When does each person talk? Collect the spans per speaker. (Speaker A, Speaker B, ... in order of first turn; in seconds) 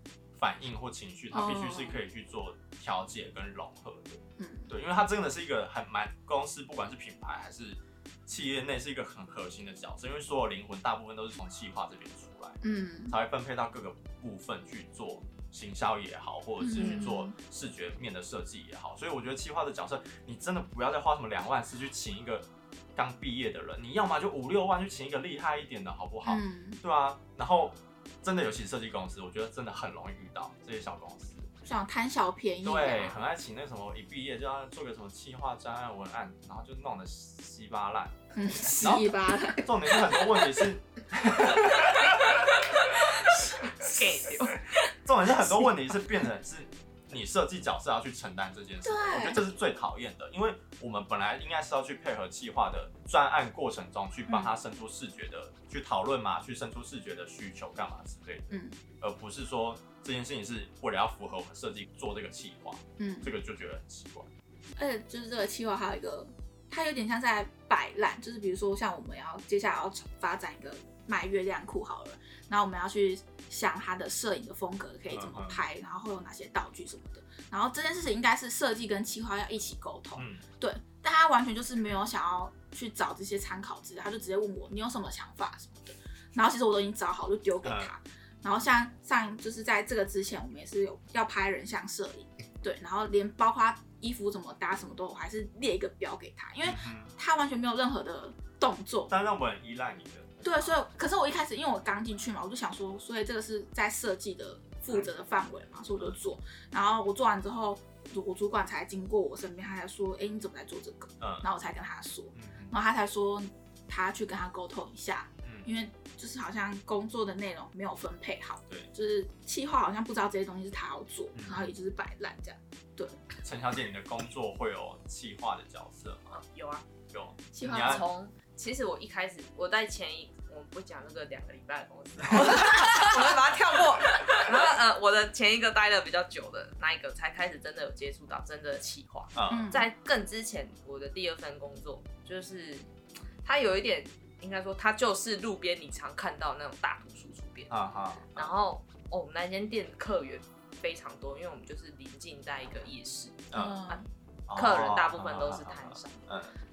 Speaker A: 0.3-31.5, 32.6-42.4, 45.0-64.3, 75.1-75.6, 80.1-80.4, 87.6-87.9, 96.6-97.1, 99.1-100.8, 111.2-111.5, 112.3-112.7, 115.4-115.7, 121.3-121.7, 123.4-126.4, 127.1-128.1, 139.3-139.8, 147.7-148.5, 153.5-153.8, 154.5-156.5
Speaker B: 1.3-2.0, 4.4-4.7, 12.6-13.2, 16.6-17.4, 26.2-26.8, 31.6-33.1, 38.3-40.6, 41.5-44.0, 48.8-49.4, 54.3-54.5, 58.5-58.8, 63.0-63.3, 64.8-99.1, 100.4-123.2, 127.5-128.1, 132.3-133.1, 139.5-139.9, 153.5-154.1
Speaker C: 43.4-44.6, 126.3-126.9, 127.7-142.9, 143.4-147.7, 148.3-154.0, 154.6-156.2